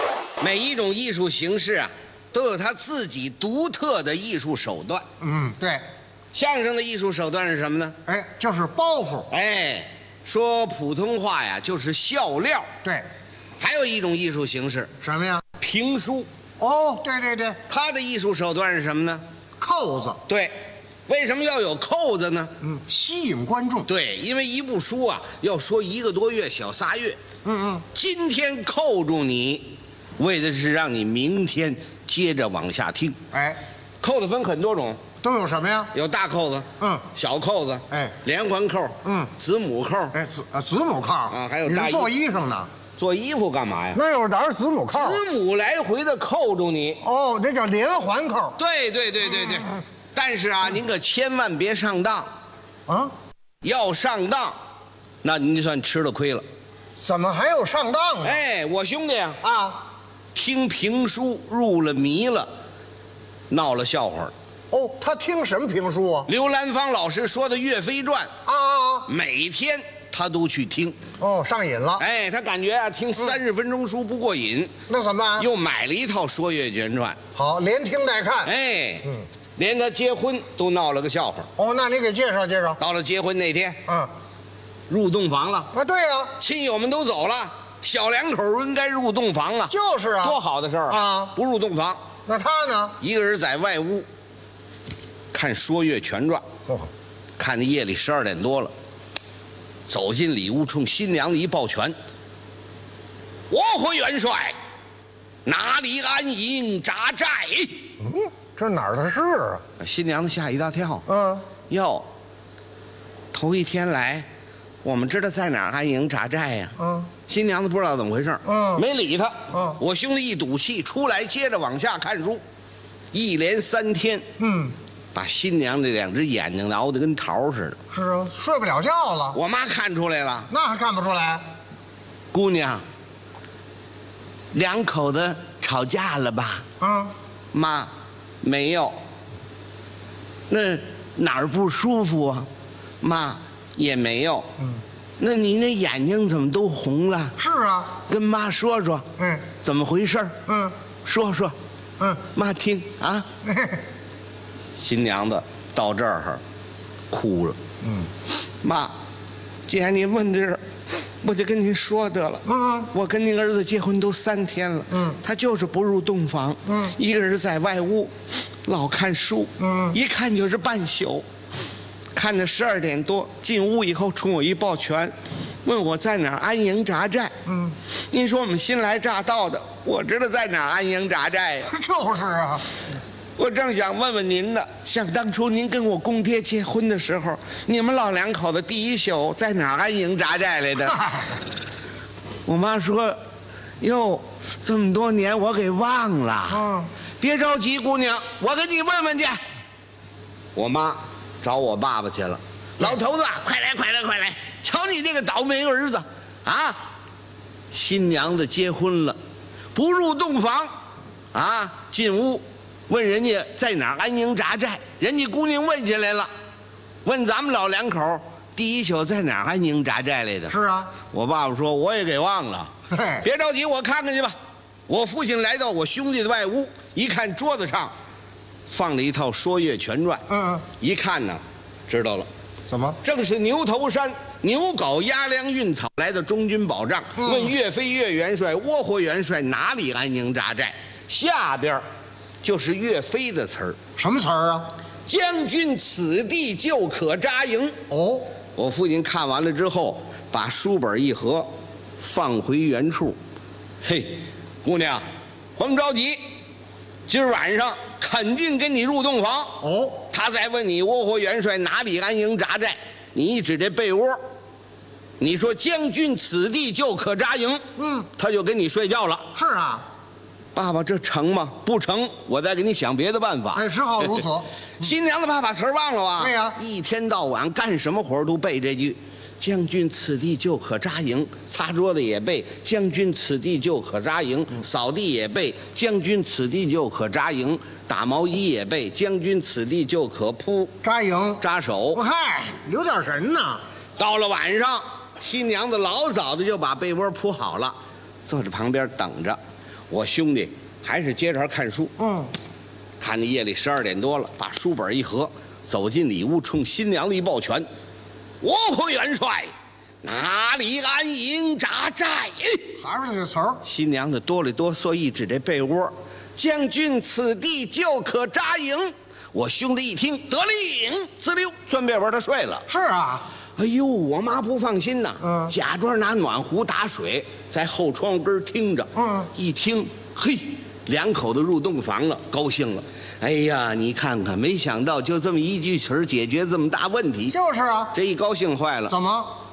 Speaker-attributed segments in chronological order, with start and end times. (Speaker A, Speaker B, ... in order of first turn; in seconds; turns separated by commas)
Speaker A: 0.4-5.0, Speaker B: 5.2-5.8, Speaker A: 6.3-8.0, Speaker B: 8.1-9.3, Speaker A: 9.3-12.7, Speaker A: 13.6-14.9, Speaker B: 15.0-15.4, Speaker A: 15.6-16.3, Speaker B: 16.6-17.6, Speaker A: 17.7-19.2, Speaker B: 19.6-20.2, Speaker A: 20.3-20.5, Speaker A: 21.1-22.6, Speaker B: 22.6-23.9, Speaker A: 23.8-27.2, Speaker B: 27.4-27.8, Speaker A: 27.9-33.2, Speaker B: 33.3-33.6, Speaker A: 34.0-35.0, Speaker B: 35.2-35.9, Speaker A: 35.9-40.2, Speaker B: 36.8-37.0, Speaker B: 39.0-39.3, Speaker B: 40.1-42.7, Speaker A: 41.3-42.1, Speaker A: 43.0-44.0, Speaker B: 43.9-45.2, Speaker A: 44.9-47.0, Speaker B: 47.0-48.6, Speaker A: 48.6-52.3, Speaker B: 52.9-53.1, Speaker A: 53.6-54.5, Speaker A: 55.2-56.4, Speaker B: 57.0-58.4, Speaker A: 58.2-59.4, Speaker B: 59.4-59.8, Speaker A: 60.3-62.5, Speaker A: 63.5-64.3, Speaker B: 64.7-66.3, Speaker A: 66.2-68.3, Speaker B: 68.5-69.1, Speaker A: 69.1-71.0, Speaker B: 71.2-72.0, Speaker A: 72.0-74.7, Speaker B: 74.9-75.5, Speaker A: 75.4-77.2, Speaker B: 77.3-78.5, Speaker A: 78.4-81.5, Speaker B: 81.6-82.8, Speaker A: 82.8-83.8, Speaker B: 83.8-84.1, Speaker A: 84.9-85.7, Speaker B: 85.7-86.3, Speaker A: 86.4-92.0, Speaker B: 89.7-90.4, Speaker B: 90.9-91.3, Speaker B: 92.3-93.0, Speaker A: 93.0-94.1, Speaker A: 95.3-96.4, Speaker A: 97.4-98.7, Speaker A: 99.9-102.0, Speaker A: 103.5-104.6, Speaker A: 105.5-107.9, Speaker B: 108.0-109.6, Speaker A: 109.8-111.0, Speaker B: 111.1-111.5, Speaker A: 111.7-112.1, Speaker A: 113.3-114.3, Speaker A: 114.8-116.8, Speaker B: 116.8-117.1, Speaker A: 117.3-122.4, Speaker B: 118.4-118.8, Speaker B: 119.5-119.8, Speaker A: 123.1-124.2, Speaker B: 124.4-124.7, Speaker A: 125.1-127.8, Speaker B: 127.9-129.4, Speaker A: 129.3-130.5, Speaker B: 130.5-131.4, Speaker A: 132.3-132.8, Speaker A: 134.5-136.7, Speaker B: 136.8-137.1, Speaker A: 137.5-138.9, Speaker A: 140.5-142.5, Speaker A: 143.0-144.5, Speaker A: 145.2-147.4, Speaker B: 147.4-147.9, Speaker A: 148.1-149.1, Speaker B: 149.2-149.4, Speaker A: 149.6-150.4, Speaker B: 150.5-150.7, Speaker A: 151.0-151.6, Speaker A: 152.3-153.3, Speaker B: 153.4-153.8, Speaker A: 154.8-156.4, Speaker A: 157.1-157.6, Speaker B: 157.8-158.1, Speaker A: 158.6-158.9, Speaker A: 159.7-171.2, Speaker B: 162.4-162.9, Speaker B: 164.9-165.2, Speaker B: 166.7-166.9, Speaker B: 169.6-169.9, Speaker A: 172.1-177.3, Speaker B: 177.5-177.7, Speaker A: 177.9-181.8, Speaker B: 181.7-182.6, Speaker A: 183.4-191.0, Speaker A: 192.4-193.2, Speaker A: 193.8-199.4, Speaker B: 196.5-196.9, Speaker A: 200.5-206.8, Speaker A: 207.7-209.2, Speaker A: 209.7-210.7, Speaker A: 211.3-216.3, Speaker A: 217.0-224.3, Speaker B: 220.5-220.9, Speaker B: 222.9-223.2, Speaker A: 224.9-227.9, Speaker A: 228.7-230.2, Speaker B: 230.3-230.6, Speaker A: 230.8-232.3, Speaker B: 232.7-233.0, Speaker A: 233.0-241.8, Speaker B: 237.2-237.5, Speaker A: 242.4-243.8, Speaker B: 244.0-244.7, Speaker A: 245.1-247.7, Speaker B: 247.9-248.3, Speaker A: 248.6-253.2, Speaker A: 253.8-255.0, Speaker A: 255.6-256.2, Speaker A: 257.1-264.2, Speaker B: 259.6-260.0, Speaker A: 265.2-267.6, Speaker B: 267.8-268.1, Speaker A: 268.2-269.3, Speaker B: 269.3-269.8, Speaker A: 270.5-274.3, Speaker B: 273.5-274.5, Speaker A: 274.8-290.7, Speaker B: 276.2-276.6, Speaker B: 290.8-291.4, Speaker A: 291.4-292.0, Speaker B: 291.9-293.6, Speaker A: 294.0-299.4, Speaker A: 299.9-301.9, Speaker B: 302.0-302.3, Speaker A: 303.0-307.7, Speaker A: 308.4-309.5, Speaker A: 310.0-312.7, Speaker B: 312.8-313.6, Speaker A: 313.6-322.6, Speaker B: 322.7-323.3, Speaker A: 323.6-337.4, Speaker B: 325.2-325.5, Speaker B: 328.9-329.3, Speaker B: 337.3-337.9, Speaker A: 337.9-339.0, Speaker B: 338.9-339.3